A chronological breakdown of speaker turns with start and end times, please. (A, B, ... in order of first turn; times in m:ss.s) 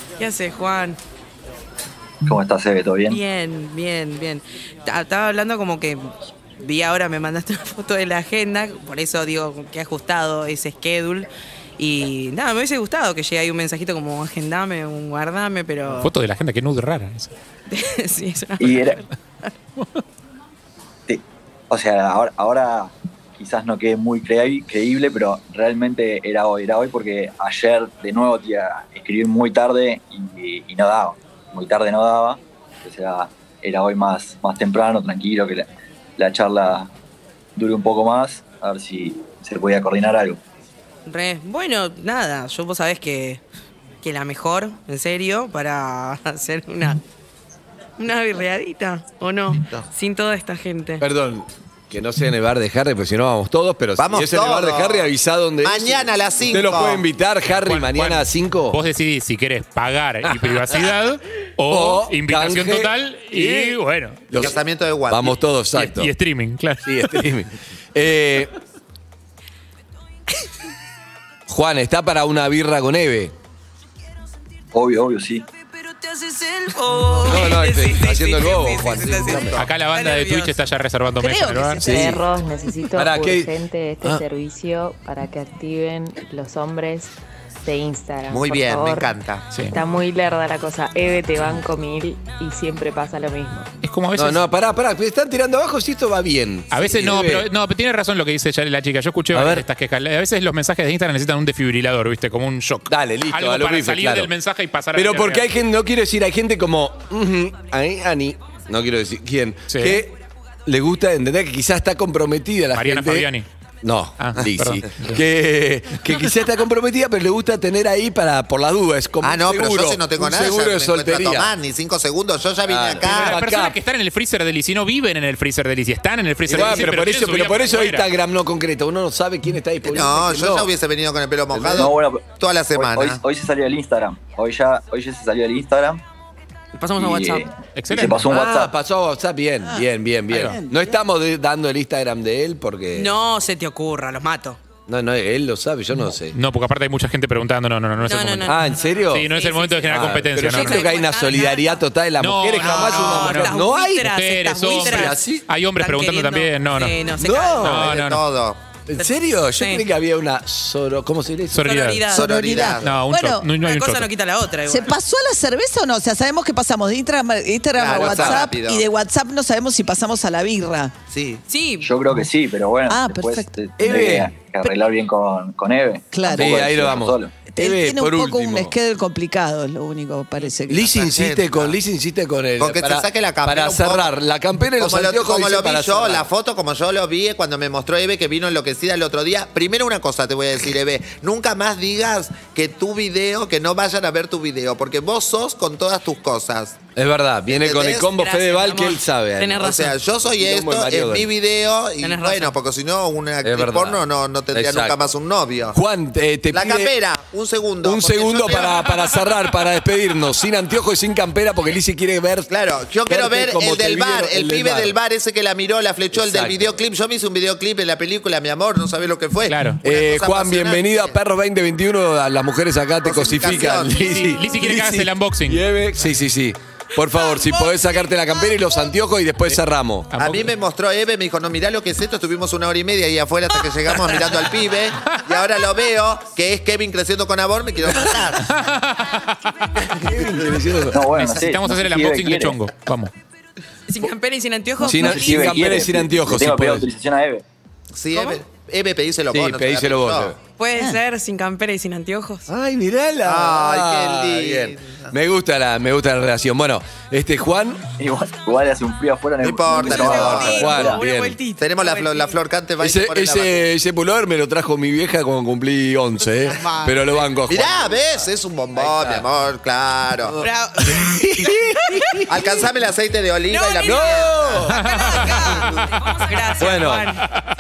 0:00.2-0:01.0 A
0:02.2-0:03.2 B
0:03.1-0:16.1 A
0:15.9-0:17.3 C
0:17.7-0:19.5 A
0:18.6-0:19.0 B
0:21.1-0:36.9 B
0:37.6-0:40.4 B
0:41.1-0:43.4 A
0:44.0-0:47.0 A
0:48.0-0:51.0 A
0:51.0-0:58.8 D
0:54.0-0:57.0 E
0:57.6-1:04.3 C
1:00.2-1:00.8 D
1:01.7-1:06.1 D
1:04.3-1:05.4 E
1:05.8-1:07.3 C
1:06.8-1:08.5 D
1:11.5-1:13.3 D
1:14.7-1:15.4 B
1:16.0-1:20.6 A
1:17.2-1:19.7 D
1:19.6-1:22.1 C
1:21.2-1:22.1 F
1:21.8-1:22.3 D
1:21.9-1:27.1 G
1:22.9-1:24.2 D
1:27.6-1:29.1 G
1:28.3-1:29.4 E
1:29.7-1:33.7 G
1:33.8-1:34.4 C
1:34.1-1:37.5 D
1:36.7-1:45.5 C
1:39.3-1:39.7 D
1:42.9-1:44.3 D
1:45.0-1:53.3 D
1:49.7-1:50.0 C
1:52.7-1:53.5 C
1:53.8-2:01.5 D
1:54.2-1:55.2 C
1:59.2-2:03.4 E
2:02.7-2:03.8 D
2:03.0-2:08.1 C
2:06.4-2:10.7 D
2:09.8-2:13.2 E
2:11.6-2:16.0 B
2:16.8-2:17.5 A
2:17.0-2:18.7 B
2:17.8-2:18.3 C
2:18.3-2:23.1 D
2:20.3-2:20.6 C
2:20.4-2:21.0 F
2:22.9-2:24.6 A
2:24.9-2:26.4 D
2:26.3-2:30.9 C
2:28.0-2:31.8 A
2:28.5-2:29.3 D
2:29.8-2:34.1 D
2:32.2-2:37.1 C
2:32.6-2:37.9 A
2:34.7-2:35.5 D
2:37.1-2:38.1 D
2:37.6-2:38.2 C
2:37.8-2:38.6 E
2:38.9-2:41.7 D
2:39.0-2:39.9 A
2:41.5-2:42.1 C
2:41.6-2:42.5 A
2:42.1-2:43.0 E
2:42.2-2:43.5 F
2:42.8-2:44.1 C
2:43.6-2:45.0 A
2:44.7-2:50.9 F
2:47.8-2:48.9 E
2:47.9-2:48.5 D
2:51.1-2:51.4 E
2:51.5-2:51.9 A
2:51.8-2:57.4 B
2:52.9-2:53.5 F
2:53.8-2:54.4 D
2:56.1-2:56.7 F
2:56.3-2:58.7 D
2:57.5-3:01.0 F
3:00.7-3:06.3 D
3:00.9-3:01.8 E
3:02.6-3:04.1 E
3:04.8-3:16.8 E
3:17.0-3:19.8 D
3:17.5-3:18.1 E
3:18.2-3:20.0 A
3:19.6-3:25.8 E
3:20.3-3:21.3 D
3:22.0-3:22.6 A
3:23.4-3:25.1 D
3:25.7-3:26.9 D
3:26.5-3:29.0 E
3:27.8-3:32.5 D
3:32.5-3:41.2 E
3:33.1-3:35.0 D
3:36.1-3:36.8 D
3:39.5-3:39.8 C
3:39.8-3:50.1 D
3:43.0-3:44.2 E
3:44.0-3:45.7 C
3:47.0-3:48.9 A
3:50.1-3:50.5 C
3:50.2-3:58.5 E
3:58.5-3:59.3 C
3:59.9-4:01.3 D
4:00.9-4:02.6 B
4:01.1-4:03.1 C
4:03.9-4:05.6 A
4:04.8-4:06.9 D
4:04.8-4:07.4 B
4:07.9-4:10.4 E
4:08.1-4:08.4 A
4:09.3-4:10.4 D
4:10.6-4:12.5 A
4:12.5-4:17.8 D
4:13.2-4:15.1 E
4:18.0-4:21.0 B
4:19.4-4:20.6 E
4:19.7-4:22.4 A
4:20.1-4:21.4 D
4:21.6-4:23.7 E
4:22.8-4:28.2 D
4:26.5-4:27.3 A
4:27.5-4:30.4 E
4:28.7-4:29.3 D
4:30.2-4:32.2 D
4:30.4-4:32.3 A
4:32.3-4:36.1 E
4:33.5-4:37.3 A
4:33.8-4:35.4 D
4:36.5-4:37.2 D